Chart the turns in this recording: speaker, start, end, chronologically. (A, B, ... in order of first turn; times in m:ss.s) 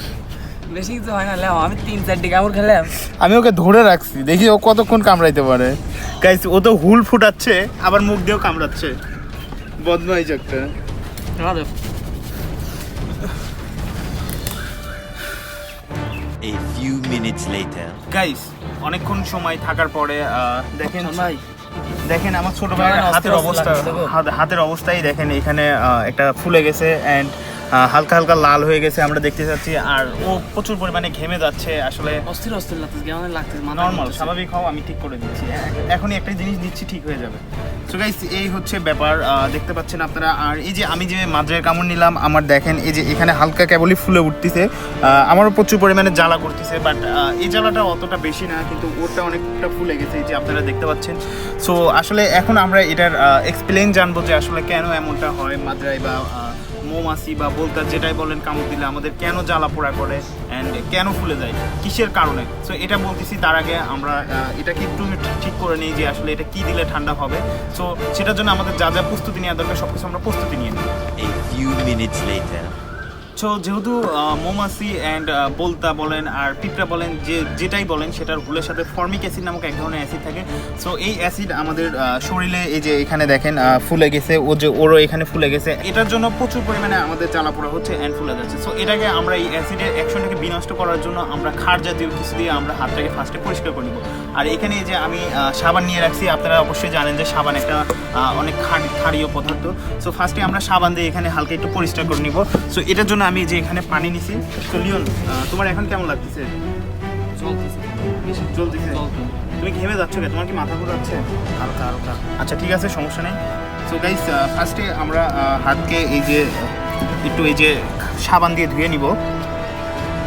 0:00.7-0:02.9 A
0:03.0-0:09.0 B
0:09.8-0:10.7 B
0:11.4-0:11.7 A
0:16.4-0:18.0 C
0:18.1-0:21.2 B
0:21.0-0:21.4 A
0:22.0-0:32.2 B
0:22.7-0:24.1 A
0:32.3-0:34.3 A
0:33.7-1:10.9 B
1:11.2-1:12.8 C
1:13.4-1:46.5 B
1:47.3-1:49.6 A
1:48.5-1:49.0 B
1:49.6-1:59.2 B